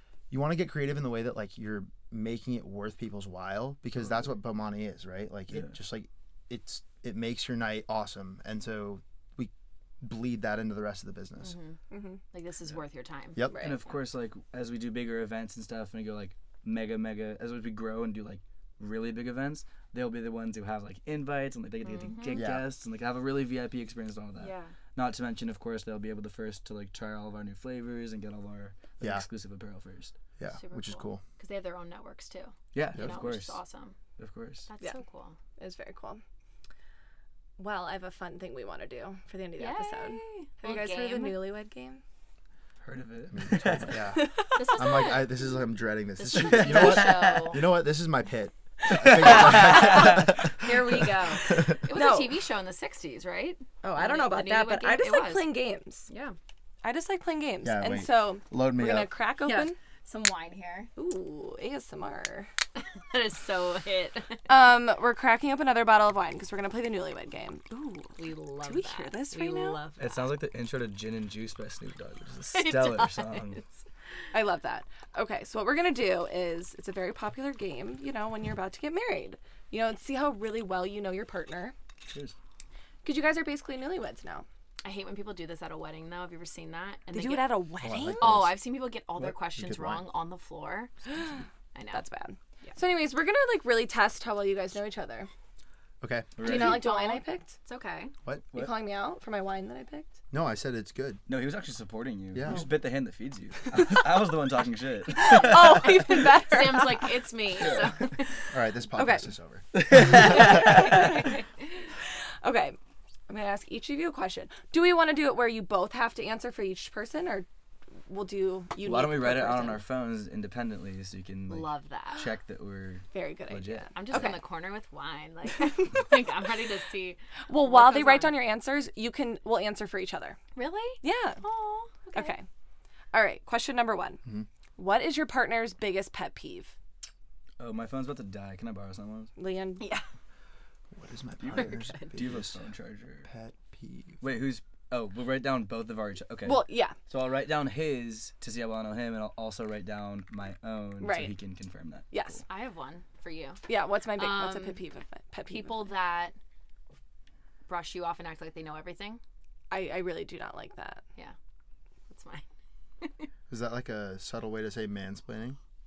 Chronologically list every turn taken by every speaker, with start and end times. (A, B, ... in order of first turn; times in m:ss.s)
0:00.3-0:11.6 A
0:11.4-0:11.8 B
0:11.9-0:12.2 C
0:12.3-0:13.9 B
0:13.3-0:13.7 A
0:13.5-0:13.8 C
0:13.6-0:30.1 D
0:21.8-0:22.4 B
0:22.3-0:22.7 A
0:24.4-0:24.7 B
0:30.4-0:31.2 A
0:30.5-0:34.0 B
0:32.7-0:33.6 D
0:34.2-0:34.7 D
0:34.6-0:35.4 B
0:35.6-0:36.2 C
0:37.6-0:42.0 C
0:39.6-0:41.4 B
0:42.8-0:44.1 D
0:43.3-0:51.7 A
0:44.1-0:44.7 C
0:44.5-0:45.4 B
0:46.2-0:47.6 B
0:46.3-0:47.6 D
0:48.9-0:50.2 D
0:49.4-0:55.6 B
0:51.5-0:52.4 C
0:53.8-0:56.1 C
0:56.1-0:56.4 B
0:56.8-0:59.8 C
0:57.6-0:59.1 A
0:59.4-1:00.9 B
1:00.9-1:02.5 C
1:02.8-1:04.5 B
1:04.5-1:09.8 C
1:08.2-1:10.3 B
1:10.0-1:13.6 D
1:12.5-1:13.8 B
1:14.3-1:21.7 C
1:22.1-1:22.3 D
1:23.0-1:24.4 C
1:24.8-1:27.6 B
1:27.1-1:28.4 C
1:27.8-1:28.6 A
1:28.2-1:31.1 B
1:29.2-1:30.0 A
1:31.7-1:32.0 B
1:31.9-1:35.3 C
1:36.0-1:36.4 A
1:36.4-1:36.8 D
1:36.4-1:37.5 C
1:36.4-1:38.1 B
1:38.5-1:40.1 C
1:40.3-1:41.2 A
1:41.3-1:46.1 D
1:42.3-1:42.7 A
1:45.1-1:47.2 C
1:45.9-1:48.4 B
1:48.5-1:49.6 A
1:49.0-1:49.3 C
1:49.7-1:51.2 D
1:50.0-1:51.4 C
1:50.3-1:51.4 B
1:52.4-1:52.8 C
1:53.3-1:57.5 C
1:58.0-1:59.8 C
1:58.8-2:04.2 D
2:01.5-2:02.2 B
2:03.1-2:04.4 C
2:03.9-2:08.4 B
2:07.5-2:10.4 C
2:10.5-2:12.4 B
2:11.0-2:11.4 C
2:12.1-2:12.4 C
2:13.1-2:14.2 C
2:14.8-2:16.7 C
2:17.6-2:19.3 D
2:19.4-2:19.9 C
2:19.8-2:20.0 B
2:20.9-2:22.6 A
2:21.4-2:23.3 D
2:21.5-2:22.2 B
2:23.2-2:24.2 A
2:24.2-2:32.4 D
2:26.4-2:26.9 C
2:31.0-2:31.3 C
2:32.1-2:32.4 C
2:32.5-2:34.8 B
2:33.7-2:35.9 C
2:35.5-2:36.3 B
2:37.7-2:39.2 B
2:39.7-2:41.0 C
2:42.1-2:42.4 B
2:43.0-2:43.3 B
2:43.5-2:45.6 A